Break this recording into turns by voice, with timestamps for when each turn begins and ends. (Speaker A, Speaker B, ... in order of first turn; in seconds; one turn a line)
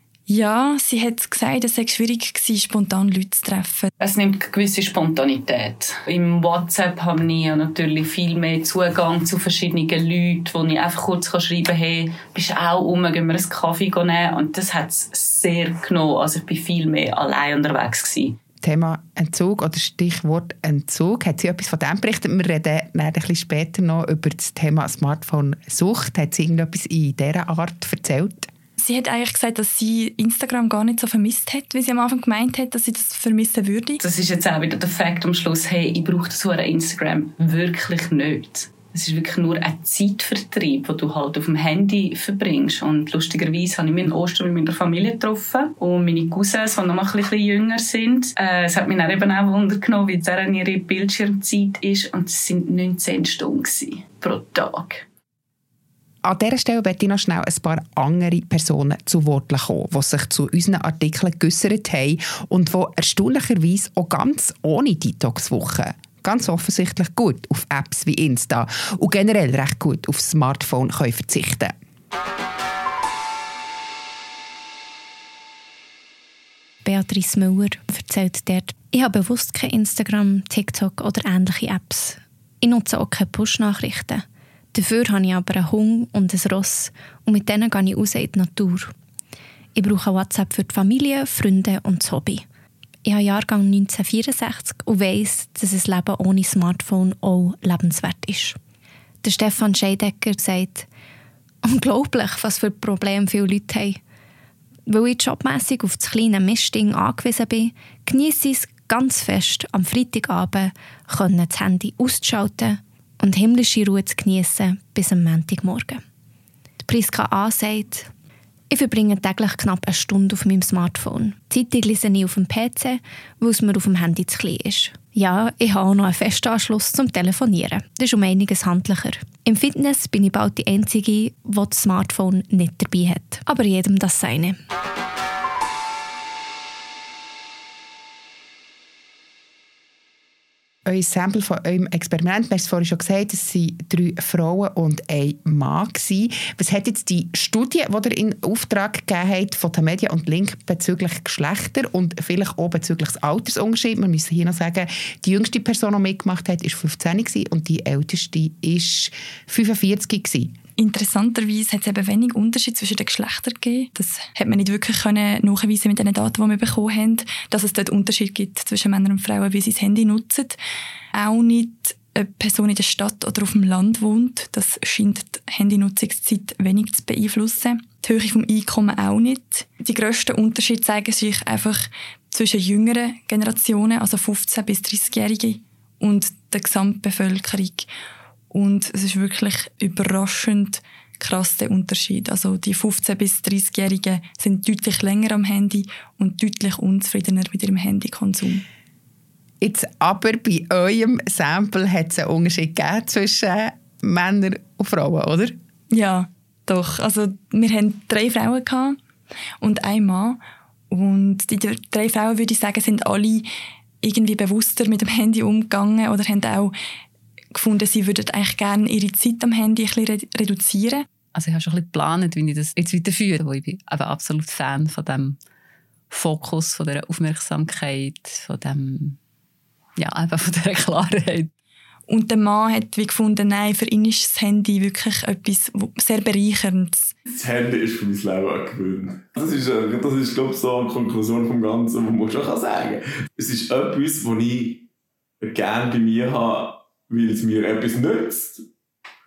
Speaker A: 0.3-3.9
Speaker B: 4.0-18.4
Speaker C: 18.6-28.5
Speaker A: 28.8-34.0
Speaker B: 34.0-55.0
Speaker C: 56.2-71.7
Speaker D: 76.8-88.9
Speaker D: 89.7-92.4
Speaker D: 93.0-98.6
Speaker D: 99.2-100.9
Speaker D: 101.6-104.0
Speaker D: 104.9-116.0
Speaker D: 116.8-118.1
Speaker D: 118.7-134.6
Speaker C: 140.8-160.5
Speaker A: 160.8-170.6
Speaker A: 171.1-187.9
Speaker A: 188.5-198.6
Speaker C: 199.6-205.6
Speaker A: 205.9-209.0
Speaker A: 209.6-213.5
Speaker A: 214.0-216.7
Speaker A: 217.5-221.1
Speaker E: 221.3-225.4
Speaker B: 222.8-223.2
Speaker E: 226.1-229.2
Speaker B: 226.1-226.4
Speaker B: 227.4-227.7
Speaker E: 230.0-231.5
Speaker A: 232.1-237.1
Speaker F: 237.3-244.9
Speaker F: 245.4-248.7